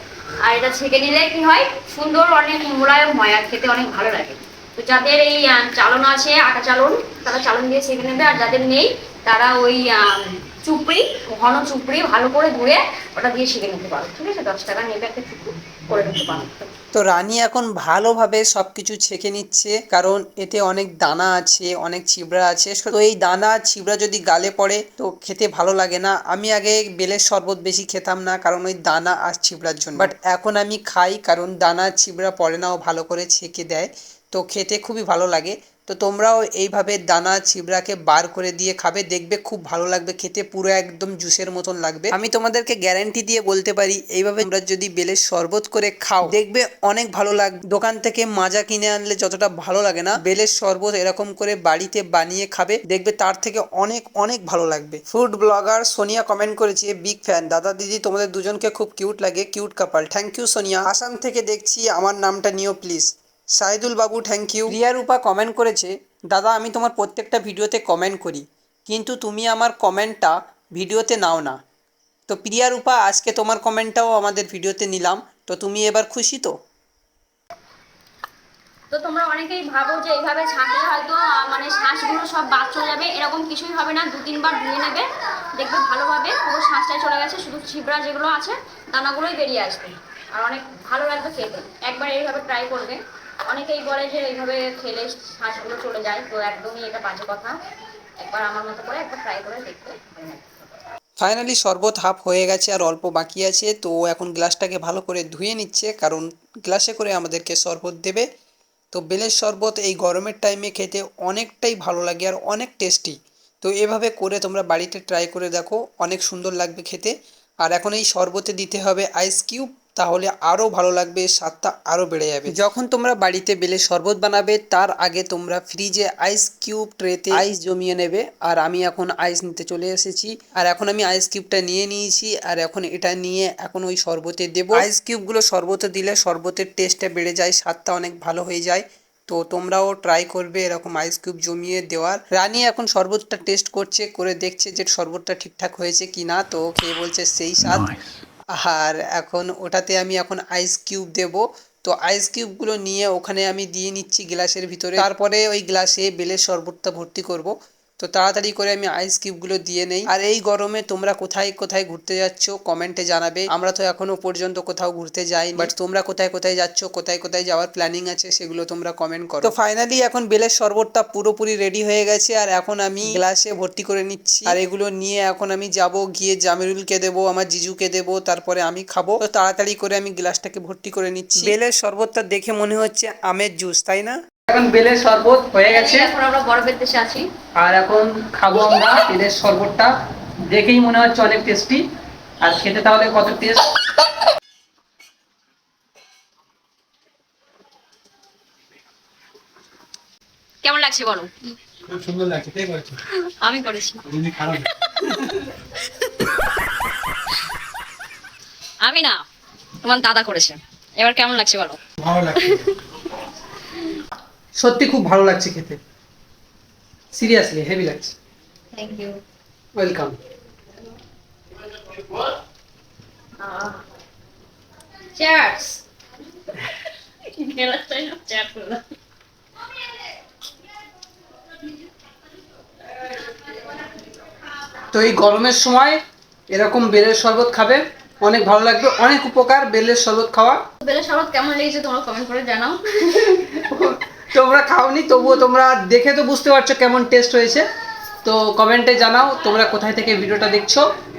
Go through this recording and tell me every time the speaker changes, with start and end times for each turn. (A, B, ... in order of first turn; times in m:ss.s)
0:00.4-0:16.7 A
0:16.9-1:11.6 B
1:12.3-1:16.5 B
1:18.9-1:37.6 A
1:38.2-1:40.7 A
1:41.2-1:48.3 B
1:48.9-2:27.9 B
2:02.4-2:02.9 C
2:14.7-2:15.1 C
2:28.6-3:06.1 B
2:49.4-2:50.0 C
2:53.0-2:53.3 C
3:01.4-3:01.7 C
3:05.6-3:07.3 A
3:07.6-3:09.9 B
3:10.5-3:11.8 B
3:12.4-3:13.7 B
3:20.6-3:21.3 A
3:21.9-3:23.0 C
3:23.2-3:24.2 A
3:28.8-3:29.2 A
3:29.8-3:31.8 A
3:32.0-3:32.3 C
3:32.3-3:32.7 A
3:34.6-3:35.8 B
3:37.1-3:38.1 B
3:38.8-3:39.2 A
3:39.8-3:40.2 B
3:43.4-3:43.8 A
3:45.2-3:45.8 A
3:47.3-3:48.8 A
3:54.9-3:56.0 B
3:56.5-4:00.6 B
4:00.8-4:03.6 A
4:03.7-4:07.6 B
4:08.2-4:10.9 B